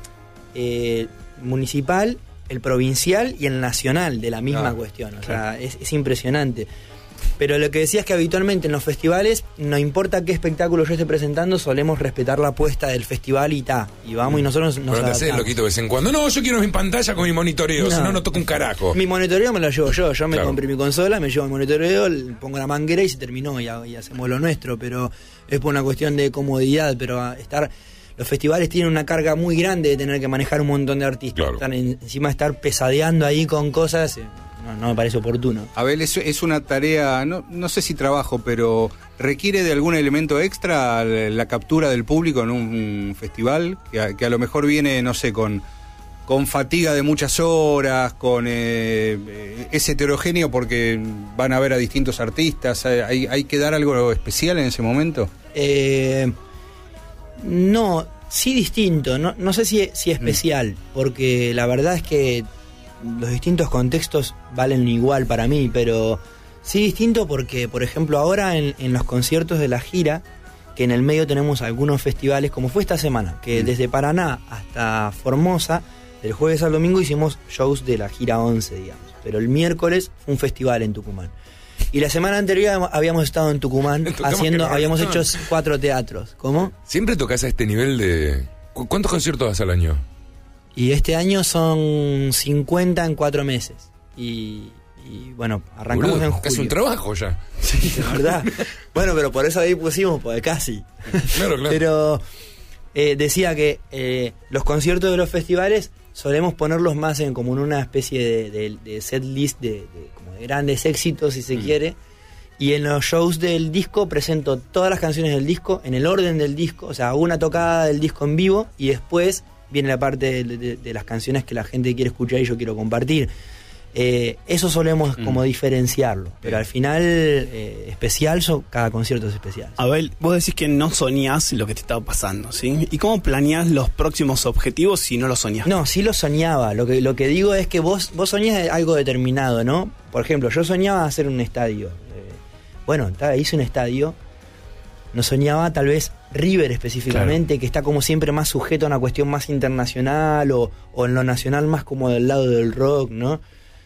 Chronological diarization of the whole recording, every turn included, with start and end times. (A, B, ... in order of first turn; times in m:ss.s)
0:00.5-0:06.7 A
0:07.4-0:15.5 A
0:14.9-0:19.0 B
0:17.8-0:18.2 A
0:18.9-0:35.7 A
0:20.3-0:20.6 B
0:31.4-0:31.6 B
0:35.8-0:45.6 C
0:46.3-0:55.3 C
0:55.5-0:56.3 A
0:57.4-1:02.4 A
1:03.0-1:10.2 A
1:10.8-1:21.3 A
1:21.9-1:26.7 A
1:24.0-1:25.4 B
1:26.8-1:30.0 B
1:30.7-1:36.7 A
1:35.9-1:38.1 B
1:37.7-1:42.2 A
1:41.3-1:41.8 B
1:42.9-1:52.0 A
1:52.6-2:03.3 A
2:03.9-2:09.8 A
2:09.8-2:15.7 D
2:15.6-2:24.2 A
2:25.1-2:33.4 A